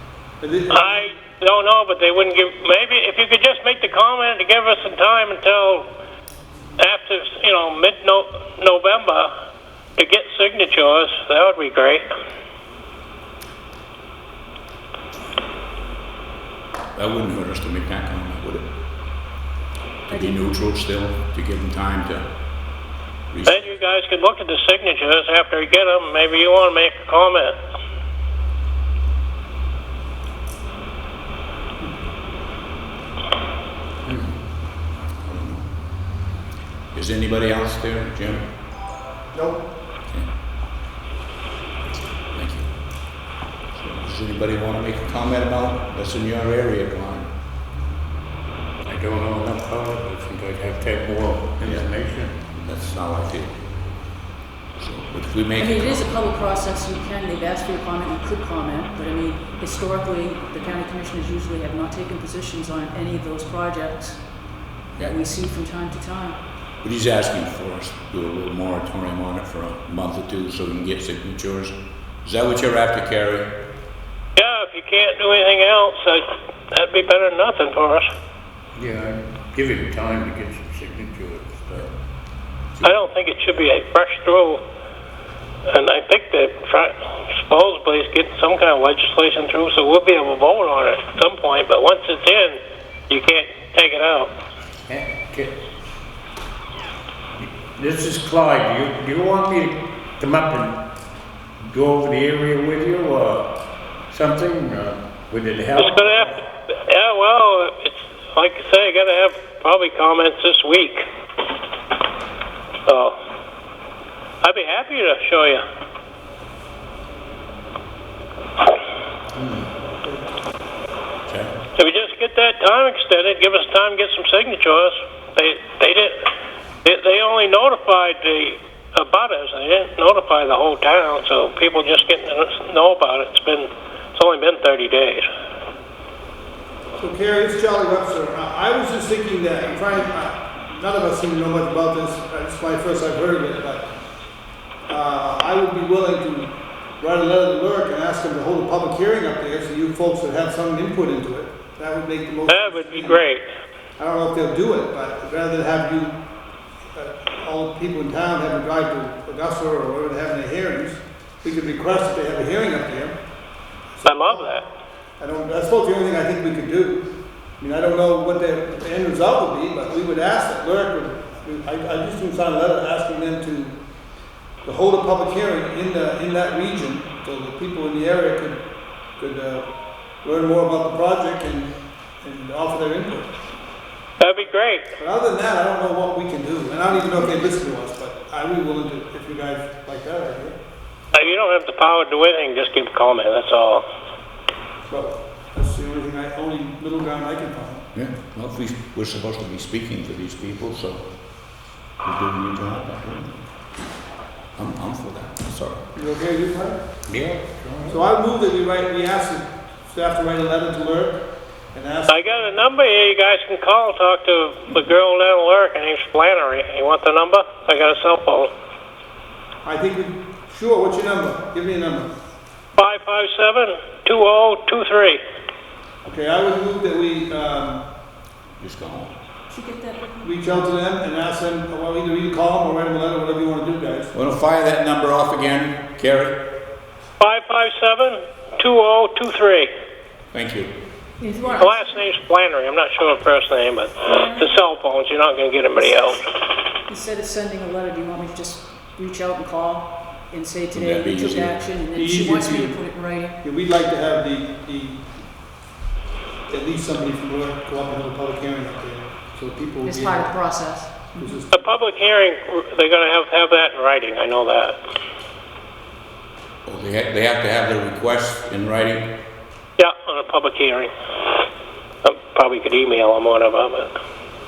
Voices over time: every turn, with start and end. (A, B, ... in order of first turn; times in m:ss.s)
0:00.4-0:01.0 A
0:00.7-0:05.9 B
0:06.8-0:09.3 B
0:10.0-0:12.0 B
0:16.9-0:18.7 C
0:20.1-0:22.3 C
0:20.1-0:20.3 D
0:23.3-0:23.6 C
0:23.4-0:27.6 B
0:34.1-0:34.3 E
0:35.0-0:35.7 C
0:36.9-0:38.5 C
0:39.3-0:39.7 A
0:42.3-0:42.9 C
0:43.7-0:47.3 C
0:48.8-0:52.3 E
0:51.6-0:51.9 C
0:52.5-0:53.7 C
0:54.8-0:56.2 C
0:55.6-1:04.2 D
1:04.9-1:06.4 D
1:06.8-1:13.5 C
1:14.4-1:18.1 B
1:18.8-1:21.9 E
1:22.8-1:24.6 B
1:25.7-1:32.6 B
1:33.1-1:34.3 B
1:34.9-1:35.6 E
1:37.4-1:40.8 E
1:41.6-1:46.4 E
1:45.8-1:51.0 B
1:52.8-1:53.2 B
1:54.4-1:55.6 B
2:01.3-2:01.5 C
2:01.8-2:06.2 B
2:06.8-2:15.2 B
2:17.0-2:23.9 A
2:24.9-2:33.2 A
2:32.5-2:33.4 B
2:34.0-2:36.2 A
2:36.9-2:43.2 A
2:44.0-2:44.5 A
2:44.0-2:44.6 B
2:45.2-2:53.8 A
2:54.6-2:58.6 A
2:59.2-2:59.7 A
3:00.2-3:03.3 A
3:04.2-3:04.8 B
3:05.0-3:10.6 A
3:11.1-3:13.8 B
3:14.9-3:17.8 A
3:17.9-3:23.5 C
3:24.5-3:25.8 C
3:25.9-3:26.8 A
3:27.1-3:28.0 E
3:27.9-3:31.2 A
3:31.7-3:32.5 A
3:32.1-3:38.5 B
3:39.6-3:42.1 A
3:42.8-3:45.2 B
3:46.0-3:47.8 A
3:48.6-3:49.1 C
3:50.2-3:54.1 A
3:54.1-3:56.4 C
3:57.2-3:59.7 B
4:00.3-4:00.7 C
4:01.2-4:01.7 D
4:01.6-4:06.2 B
4:04.1-4:04.5 D
4:06.9-4:13.4 D
4:10.7-4:11.6 C
4:11.9-4:15.3 A
4:16.5-4:20.4 A
4:19.8-4:21.4 D
4:21.1-4:21.7 A
4:21.5-4:24.8 B
4:26.6-4:29.1 C
4:29.8-4:30.9 B
4:32.0-4:33.9 B